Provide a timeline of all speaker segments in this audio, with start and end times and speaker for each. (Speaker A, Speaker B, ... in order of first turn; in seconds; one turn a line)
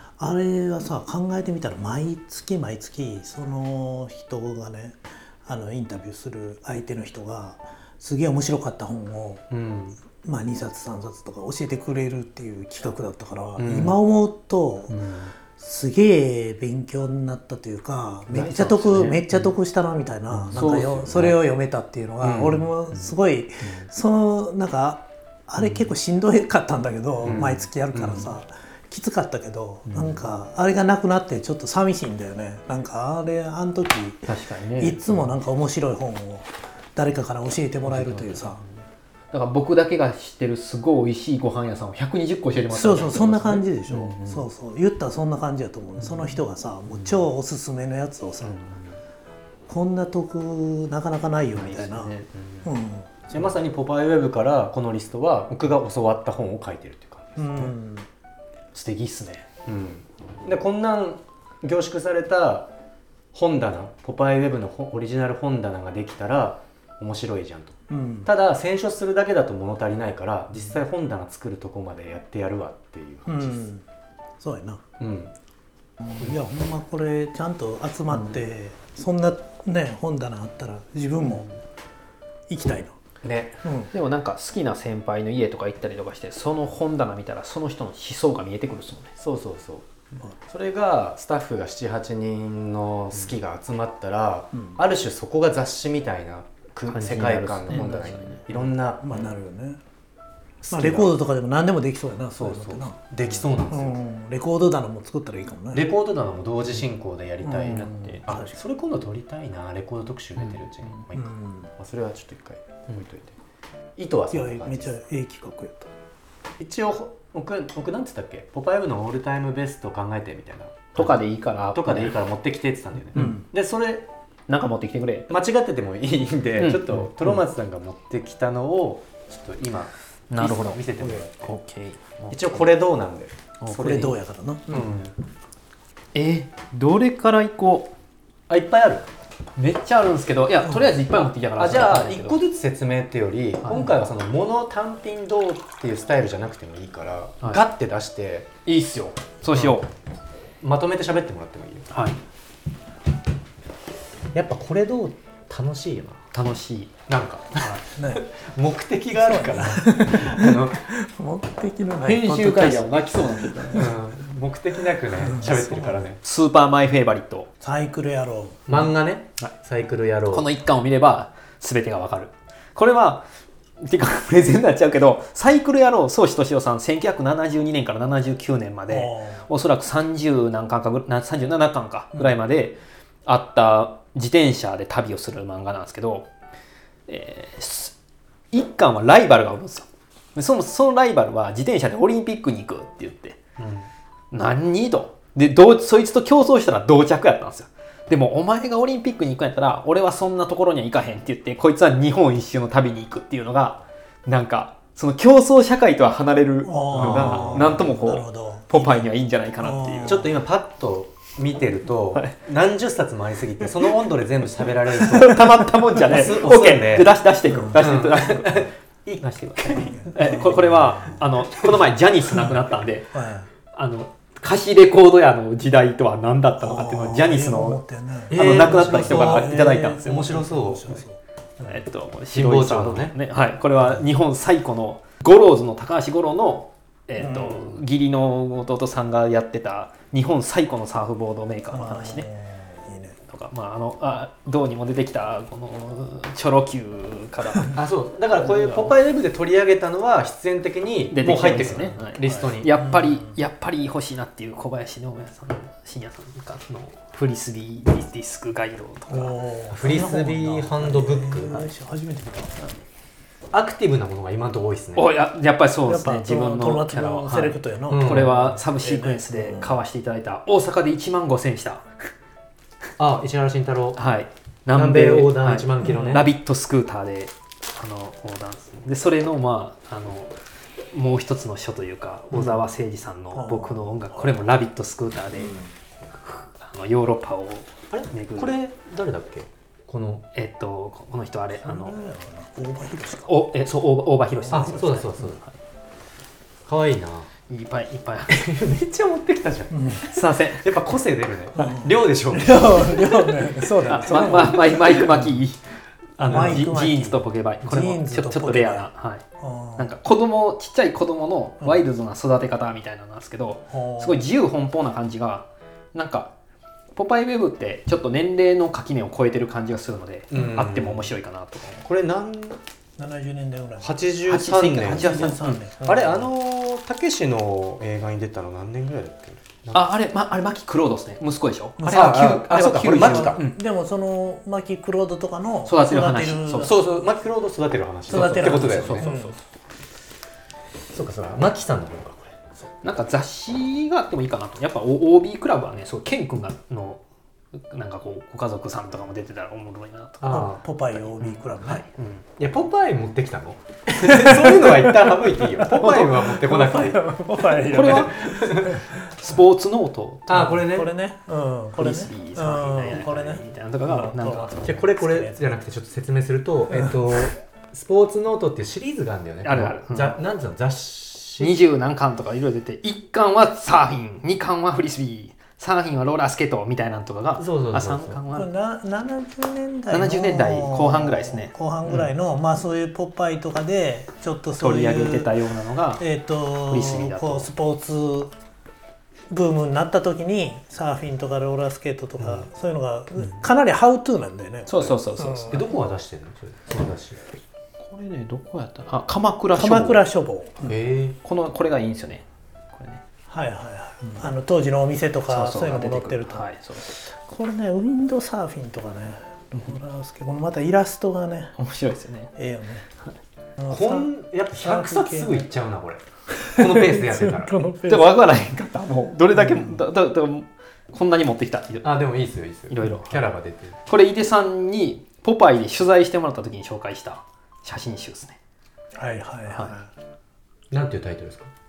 Speaker A: 0.2-9.4
Speaker B: 9.5-10.0
Speaker A: 10.1-15.0
Speaker B: 13.6-14.0
Speaker C: 15.0-15.2
Speaker A: 15.5-38.6
Speaker C: 18.3-19.5
Speaker B: 20.4-21.4
Speaker C: 20.5-21.1
Speaker B: 22.2-22.7
Speaker B: 27.2-28.3
Speaker C: 29.9-30.2
Speaker C: 34.3-35.3
Speaker C: 37.8-38.8
Speaker C: 39.3-44.4
Speaker A: 42.7-48.6
Speaker C: 46.9-47.1
Speaker C: 48.4-48.9
Speaker A: 49.7-52.1
Speaker C: 51.5-52.7
Speaker A: 52.6-53.2
Speaker B: 53.3-57.7
Speaker A: 57.4-58.1
Speaker C: 58.7-59.4
Speaker B: 59.6-62.7
Speaker B: 63.3-73.6
Speaker A: 67.9-68.3
Speaker A: 73.3-73.8
Speaker A: 74.4-74.8
Speaker B: 75.0-75.3
Speaker A: 76.0-81.4
Speaker A: 82.5-83.0
Speaker B: 83.2-83.6
Speaker A: 83.6-83.9
Speaker C: 83.9-89.1
Speaker B: 89.2-89.9
Speaker B: 90.5-99.2
Speaker C: 96.9-98.4
Speaker A: 99.0-99.8
Speaker B: 100.6-101.1
Speaker A: 100.7-103.0
Speaker B: 102.3-104.0
Speaker A: 103.7-105.9
Speaker B: 105.7-113.3
Speaker A: 107.4-108.6
Speaker C: 107.7-108.2
Speaker A: 111.1-111.7
Speaker B: 114.0-114.9
Speaker A: 114.3-115.9
Speaker B: 116.6-121.2
Speaker C: 120.9-122.2
Speaker B: 121.7-124.1
Speaker C: 123.1-123.4
Speaker A: 123.2-123.4
Speaker C: 124.5-125.3
Speaker B: 125.3-131.5
Speaker C: 126.6-127.4
Speaker C: 130.3-132.7
Speaker B: 132.3-134.1
Speaker C: 133.6-134.1
Speaker A: 133.7-134.9
Speaker B: 134.7-135.1
Speaker C: 136.1-137.9
Speaker B: 138.5-139.1
Speaker C: 139.6-142.4
Speaker B: 141.6-148.5
Speaker C: 143.6-143.9
Speaker C: 148.7-149.9
Speaker B: 150.6-151.9
Speaker C: 151.9-152.2
Speaker B: 154.3-156.3
Speaker C: 156.3-157.0
Speaker B: 157.1-160.9
Speaker A: 158.0-158.2
Speaker A: 159.1-163.9
Speaker C: 162.0-163.9
Speaker B: 163.7-166.2
Speaker A: 165.2-166.0
Speaker C: 166.2-167.5
Speaker A: 167.6-168.7
Speaker B: 168.7-170.5
Speaker C: 170.3-173.2
Speaker C: 173.8-186.3
Speaker A: 178.9-179.4
Speaker C: 187.1-187.9
Speaker C: 188.5-193.4
Speaker B: 193.6-193.9
Speaker C: 194.3-210.2
Speaker A: 206.6-209.1
Speaker B: 206.9-207.8
Speaker A: 209.6-210.3
Speaker B: 210.0-217.1
Speaker C: 214.9-218.6
Speaker A: 217.5-217.8
Speaker B: 217.7-220.1
Speaker C: 219.2-223.1
Speaker A: 219.8-221.2
Speaker A: 223.1-223.5
Speaker C: 223.7-230.3
Speaker A: 226.6-231.8
Speaker B: 228.3-231.0
Speaker C: 231.6-242.3
Speaker B: 232.3-233.1
Speaker A: 237.2-237.6
Speaker A: 241.7-243.2
Speaker C: 243.3-247.8
Speaker B: 247.7-252.7
Speaker C: 248.3-248.9
Speaker C: 251.1-259.4
Speaker A: 252.2-253.3
Speaker A: 259.1-262.6
Speaker B: 259.7-261.6
Speaker B: 263.5-265.1
Speaker C: 264.9-271.9
Speaker A: 265.9-269.8
Speaker B: 267.9-268.6
Speaker B: 273.0-274.0
Speaker C: 273.9-280.3
Speaker B: 274.7-276.3
Speaker A: 275.9-276.2
Speaker C: 280.9-285.6
Speaker A: 283.3-284.3
Speaker A: 285.4-285.7
Speaker C: 286.2-288.5
Speaker B: 287.9-290.2
Speaker C: 290.3-291.9
Speaker A: 291.6-293.3
Speaker C: 293.2-295.5
Speaker A: 294.4-294.9
Speaker B: 294.5-295.4
Speaker B: 296.6-297.3
Speaker C: 297.5-298.5
Speaker B: 298.3-303.4
Speaker A: 299.7-300.1
Speaker C: 300.0-300.7
Speaker A: 301.6-305.3
Speaker C: 303.8-305.6
Speaker B: 304.1-305.0
Speaker B: 306.2-306.7
Speaker C: 306.2-309.2
Speaker A: 306.3-308.9
Speaker A: 309.4-309.9
Speaker C: 309.8-316.3
Speaker A: 313.7-314.2
Speaker C: 316.9-321.9
Speaker B: 320.3-321.1
Speaker B: 321.8-322.6
Speaker A: 323.0-323.9
Speaker B: 323.8-329.9
Speaker C: 324.3-325.5
Speaker A: 324.8-326.3
Speaker C: 329.7-333.5
Speaker A: 331.8-332.2
Speaker B: 331.9-333.5
Speaker A: 332.8-336.7
Speaker C: 335.6-336.8
Speaker B: 336.6-339.1
Speaker A: 338.1-339.3
Speaker C: 338.1-339.4
Speaker B: 340.9-342.4
Speaker C: 342.8-347.0
Speaker C: 347.5-350.5
Speaker B: 350.2-350.6
Speaker A: 350.3-351.8
Speaker C: 351.2-352.2
Speaker B: 352.4-357.1
Speaker A: 354.0-359.1
Speaker C: 355.8-356.1
Speaker B: 357.6-358.8
Speaker C: 357.6-360.6
Speaker B: 360.3-360.9
Speaker A: 360.3-365.4
Speaker C: 361.8-364.8
Speaker B: 364.6-371.6
Speaker A: 366.7-367.0
Speaker C: 369.4-370.1
Speaker C: 371.4-378.5
Speaker B: 377.4-378.2
Speaker A: 378.3-385.3
Speaker C: 379.9-382.0
Speaker C: 384.6-386.0
Speaker A: 386.0-388.3
Speaker C: 386.7-387.5
Speaker A: 389.3-395.7
Speaker B: 392.2-392.4
Speaker C: 394.7-395.7
Speaker B: 395.5-397.2
Speaker C: 397.8-400.0
Speaker A: 399.5-400.7
Speaker B: 400.6-401.2
Speaker C: 401.2-403.0
Speaker A: 403.3-411.5
Speaker C: 405.3-407.0
Speaker C: 411.6-412.3
Speaker A: 412.3-412.9
Speaker A: 413.6-415.5
Speaker B: 413.7-417.6
Speaker A: 416.3-418.1
Speaker C: 417.9-421.9
Speaker A: 419.3-419.8
Speaker B: 421.8-423.8
Speaker C: 422.7-423.3
Speaker C: 423.9-428.4
Speaker A: 428.9-429.9
Speaker B: 430.7-431.5